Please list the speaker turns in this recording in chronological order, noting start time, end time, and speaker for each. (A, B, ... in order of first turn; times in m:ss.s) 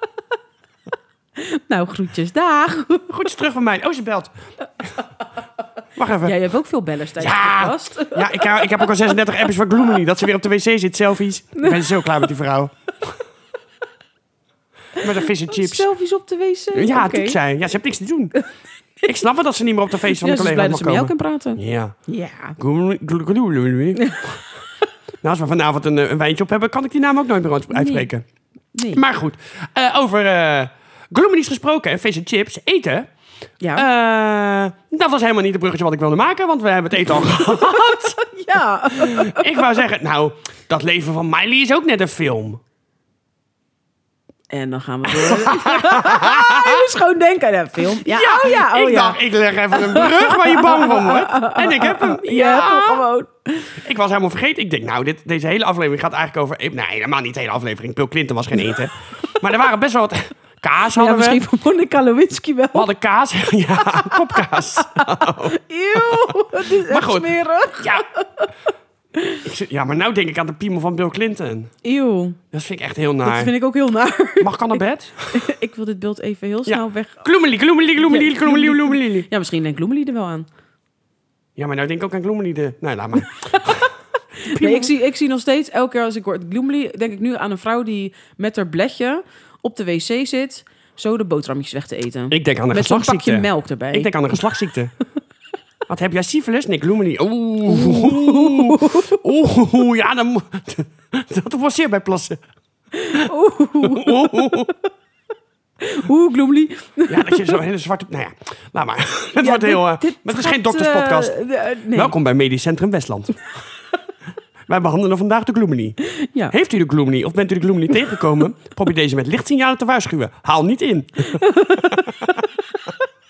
0:01.4-0:03.1 A
0:03.1-0:04.3 B
0:06.0-0:06.4 B
0:06.2-0:08.9 A
0:07.2-0:13.2 B
0:11.6-0:12.0 A
0:15.0-0:17.4 A
0:15.0-0:15.9 B
0:16.7-0:18.4 B
0:19.0-0:22.0 B
0:20.1-0:22.6 A
0:22.6-0:24.4 B
0:24.0-0:24.2 A
0:25.2-0:28.2 B
0:27.7-0:28.1 A
0:28.7-0:29.0 A
0:28.9-0:33.1 B
0:33.6-0:33.9 A
0:33.8-0:38.2 B
0:37.2-0:39.8 A
0:38.9-0:42.6 B
0:44.5-0:49.2 A
0:45.1-0:46.8 B
0:48.0-0:53.0 B
0:49.7-0:53.8 A
0:53.8-1:01.4 B
1:00.9-1:02.9 A
1:02.7-1:08.0 B
1:03.9-1:08.5 A
1:09.2-1:09.4 A
1:09.4-1:11.7 B
1:11.8-1:12.4 A
1:12.5-1:13.5 B
1:13.2-1:14.8 A
1:14.4-1:15.4 B
1:15.3-1:17.2 A
1:16.7-1:19.3 B
1:18.0-1:20.5 A
1:21.6-1:23.9 B
1:23.5-1:23.9 A
1:24.4-1:24.9 B
1:24.4-1:34.1 A
1:32.3-1:34.9 B
1:35.9-1:42.4 B
1:37.7-1:39.2 A
1:42.9-1:44.7 A
1:43.8-1:44.7 B
1:45.8-1:47.6 A
1:47.1-1:51.4 B
1:49.4-1:52.1 A
1:51.9-1:53.5 B
1:54.7-1:56.0 B
1:56.0-1:56.6 A
1:56.5-2:02.3 B
2:01.3-2:02.4 A